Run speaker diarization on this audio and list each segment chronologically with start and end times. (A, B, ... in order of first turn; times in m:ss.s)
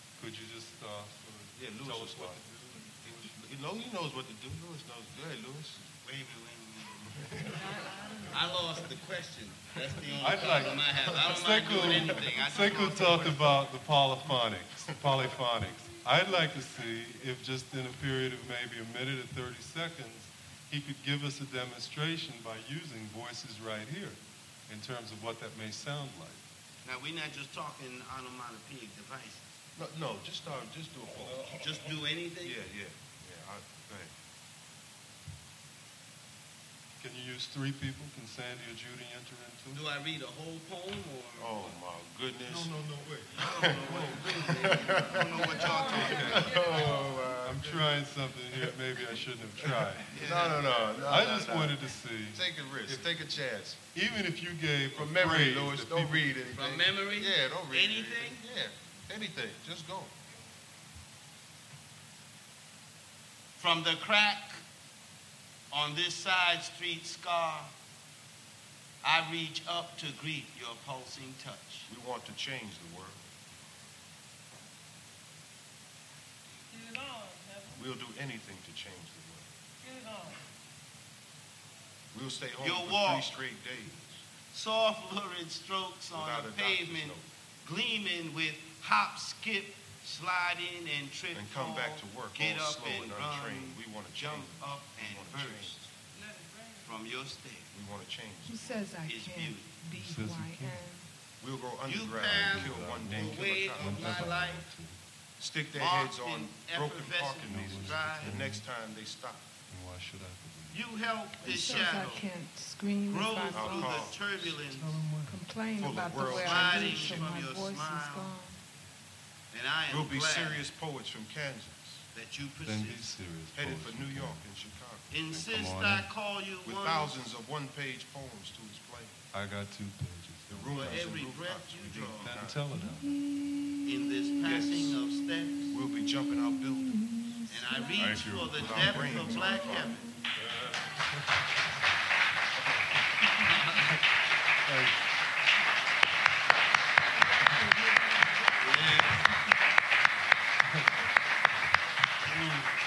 0:00.2-0:02.4 A
0:01.5-0:05.8 B
0:06.0-0:07.3 C
0:07.1-0:08.4 B
0:07.7-0:08.4 D
0:08.3-0:13.5 C
0:10.2-0:26.4 A
0:11.9-0:12.2 B
0:26.8-0:29.5 C
0:29.8-0:31.5 B
0:31.5-0:32.6 C
0:32.4-0:34.1 B
0:37.0-0:39.8 A
0:39.7-0:41.8 C
0:41.4-0:42.8 B
0:42.5-0:43.6 A
0:43.3-0:46.9 C
0:43.3-0:48.0 B
0:45.4-0:47.2 D
0:45.7-0:46.6 A
0:47.3-0:50.3 A
0:48.6-0:53.8 B
0:50.1-0:51.1 C
0:50.9-0:53.2 A
0:53.9-0:56.3 A
0:54.9-1:00.1 B
0:56.5-0:58.4 C
1:03.6-1:04.6 C
1:05.7-1:07.7 C
1:09.0-1:11.9 C
1:11.9-1:13.3 B
1:16.7-1:17.7 E
1:17.7-1:19.5 B
1:19.9-1:20.4 E
1:22.1-1:24.3 B
1:22.6-1:23.4 C
1:24.5-1:35.8 C
1:26.1-1:27.3 B
1:31.3-1:35.9 B
1:36.2-1:36.8 E
1:36.8-1:37.7 C
1:37.7-1:38.8 B
1:38.4-1:41.1 D
1:39.0-1:39.7 C
1:39.9-1:40.8 A
1:41.4-1:44.4 B
1:41.8-1:44.7 C
1:42.3-1:45.0 A
1:45.4-1:49.5 B
1:45.7-1:48.4 C
1:47.4-1:48.7 A
1:49.7-1:50.9 A
1:50.7-1:52.3 C
1:51.4-1:54.1 D
1:51.6-1:51.9 A
1:53.0-1:55.0 C
1:53.5-1:54.2 B
1:54.4-1:55.4 A
1:55.2-1:58.6 D
1:55.8-1:57.3 B
1:56.2-1:58.4 C
1:59.5-2:00.6 C
1:59.9-2:02.1 B
2:02.1-2:03.1 C
2:02.6-2:04.5 A
2:03.5-2:05.1 B
2:05.1-2:07.4 C
2:05.3-2:06.1 A
2:06.6-2:09.2 B
2:09.3-2:11.0 A
2:10.5-2:12.6 B
2:10.7-2:12.4 C
2:12.2-2:13.2 A
2:13.8-2:15.7 C
2:14.4-2:15.0 B
2:15.7-2:17.4 B
2:17.5-2:20.1 C
2:17.7-2:18.5 D
2:18.0-2:19.5 A
2:18.5-2:20.0 B
2:19.5-2:20.0 D
2:20.4-2:21.2 A
2:23.4-2:23.9 C
2:24.6-2:25.0 A
2:28.6-2:29.3 C
2:32.2-2:32.7 A